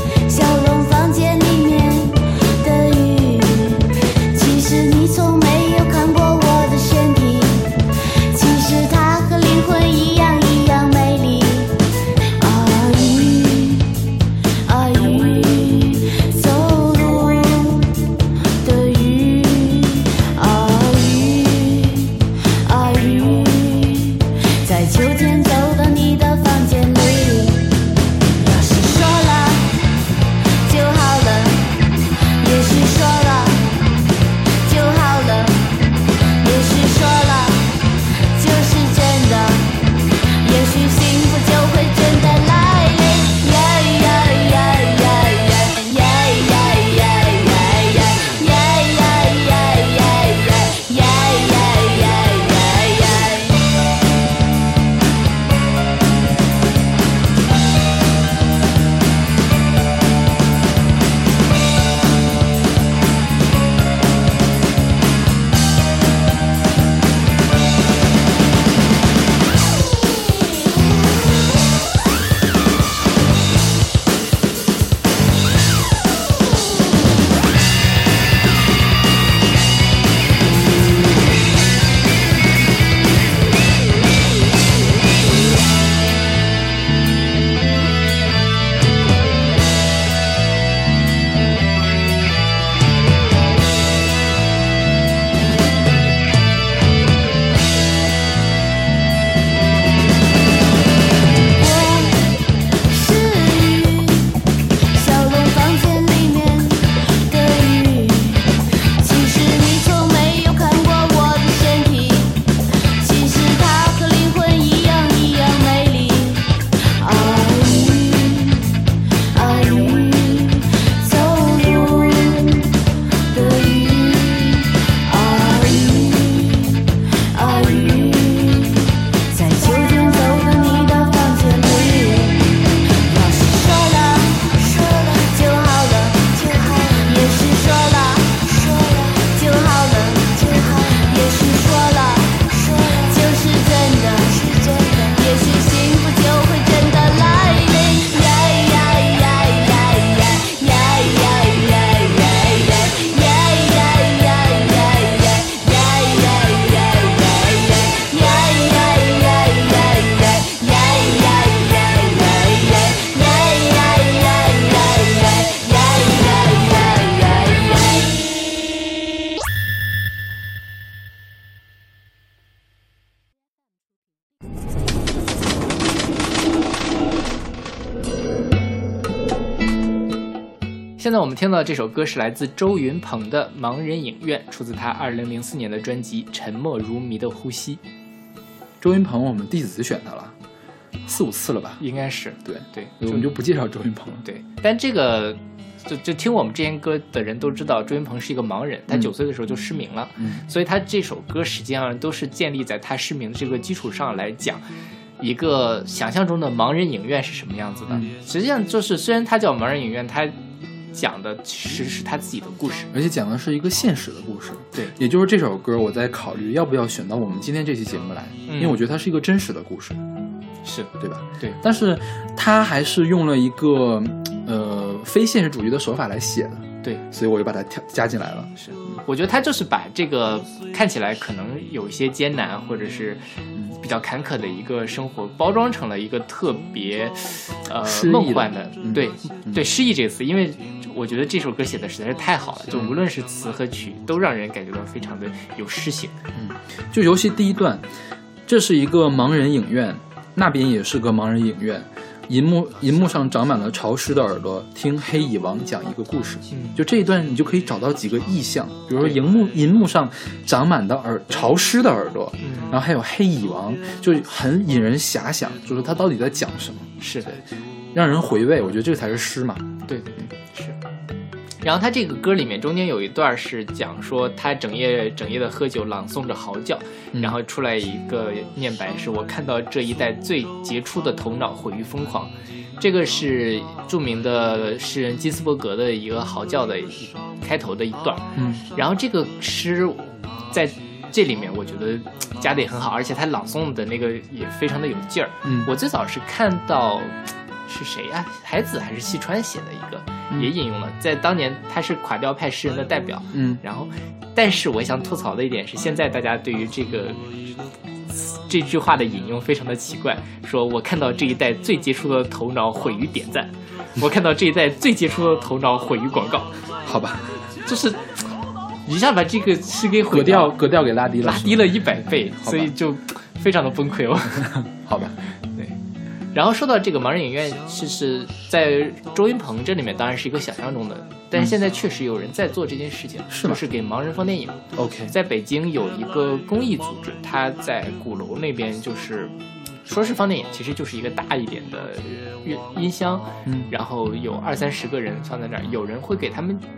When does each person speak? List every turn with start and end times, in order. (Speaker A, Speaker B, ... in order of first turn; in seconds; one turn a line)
Speaker A: 0.3-7.7
Speaker A: 8.3-11.7
Speaker A: 12.4-13.9
Speaker A: 14.7-17.9
Speaker A: 18.6-27.7
Speaker A: 28.4-29.7
Speaker A: 30.6-31.7
Speaker A: 32.4-33.7
Speaker A: 34.6-35.6
Speaker A: 36.4-37.7
Speaker A: 38.4-39.8
Speaker A: 40.4-53.6
Speaker A: 101.5-102.3
Speaker A: 102.9-104.3
Speaker A: 104.9-112.4
Speaker A: 113.0-118.7
Speaker A: 119.3-122.7
Speaker A: 123.3-168.2
Speaker B: 181.0-187.8
Speaker C: 188.8-190.3
Speaker C: 191.1-191.8
Speaker B: 191.8-193.3
Speaker C: 192.4-194.2
Speaker B: 194.2-204.6
Speaker C: 200.2-200.4
Speaker B: 205.2-210.4
Speaker C: 207.9-208.1
Speaker B: 210.9-212.9
Speaker C: 212.9-220.0
Speaker B: 218.5-218.8
Speaker B: 220.6-221.6
Speaker C: 221.0-228.9
Speaker B: 228.6-233.2
Speaker B: 233.8-246.2
Speaker C: 237.8-239.7
Speaker C: 242.7-243.0
Speaker C: 246.3-247.9
Speaker C: 248.5-266.9
Speaker B: 256.5-256.8
Speaker B: 259.0-259.3
Speaker B: 262.4-262.8
Speaker B: 267.0-267.4
Speaker C: 267.9-269.7
Speaker B: 269.9-270.8
Speaker B: 271.6-307.5
Speaker C: 277.1-277.4
Speaker C: 288.4-288.7
Speaker C: 295.4-295.7
Speaker C: 303.3-303.6
Speaker B: 308.1-316.6
Speaker C: 316.8-317.5
Speaker B: 317.6-318.2
Speaker B: 318.9-320.6
Speaker C: 320.1-322.7
Speaker B: 321.2-324.5
Speaker C: 324.5-325.2
Speaker B: 326.3-346.6
Speaker C: 333.3-333.6
Speaker C: 334.8-335.1
Speaker C: 343.4-343.7